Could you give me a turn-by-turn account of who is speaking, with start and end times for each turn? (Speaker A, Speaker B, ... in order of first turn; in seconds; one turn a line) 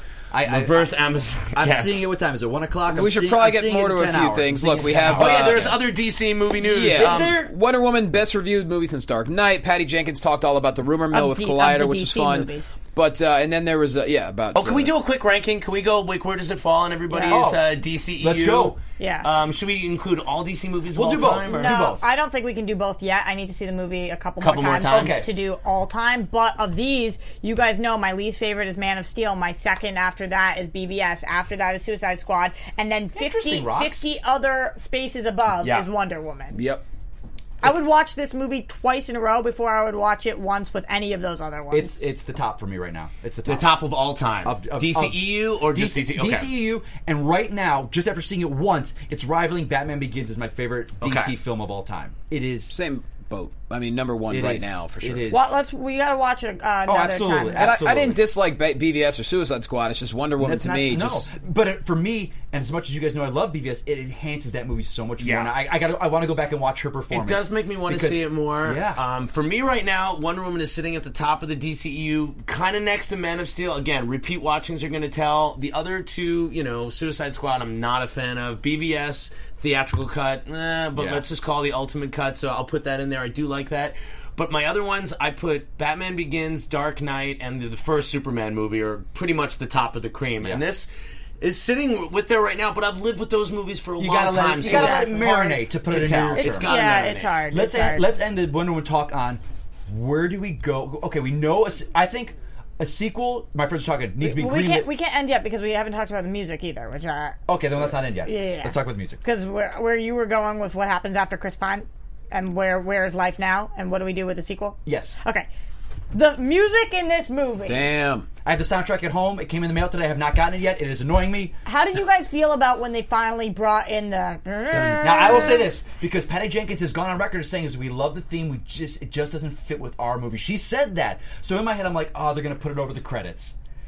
Speaker A: 0.3-0.9
Speaker B: 0.4-2.0
Speaker A: 1.5-5.8
Speaker C: 2.9-5.8
Speaker B: 5.0-7.4
Speaker C: 6.6-14.9
Speaker A: 6.9-7.4
Speaker D: 11.1-12.8
Speaker B: 14.5-21.8
Speaker D: 17.1-17.4
Speaker A: 17.3-18.8
Speaker D: 19.0-19.3
Speaker A: 20.9-22.0
Speaker D: 21.5-36.6
Speaker B: 24.4-25.2
Speaker A: 24.9-25.3
Speaker A: 33.1-34.1
Speaker C: 36.5-36.8
Speaker D: 37.6-42.0
Speaker A: 41.7-43.7
Speaker B: 43.5-46.5
Speaker A: 44.4-52.7
Speaker B: 51.0-51.3
Speaker C: 52.7-55.3
Speaker A: 54.3-55.5
Speaker D: 55.3-57.8
Speaker A: 56.9-58.2
Speaker C: 57.5-61.3
Speaker A: 60.4-69.0
Speaker B: 65.2-65.5
Speaker B: 67.1-90.9
Speaker A: 81.0-81.2
Speaker B: 91.4-97.3
Speaker A: 94.0-96.8
Speaker D: 94.6-95.6
Speaker D: 96.3-98.1
Speaker A: 97.5-104.9
Speaker D: 104.2-107.4
Speaker A: 107.5-109.2
Speaker D: 108.0-115.5
Speaker A: 114.8-115.1
Speaker D: 116.1-117.9
Speaker C: 117.7-118.3
Speaker A: 118.4-121.6
Speaker D: 121.6-125.7
Speaker C: 124.7-125.2
Speaker A: 125.0-133.5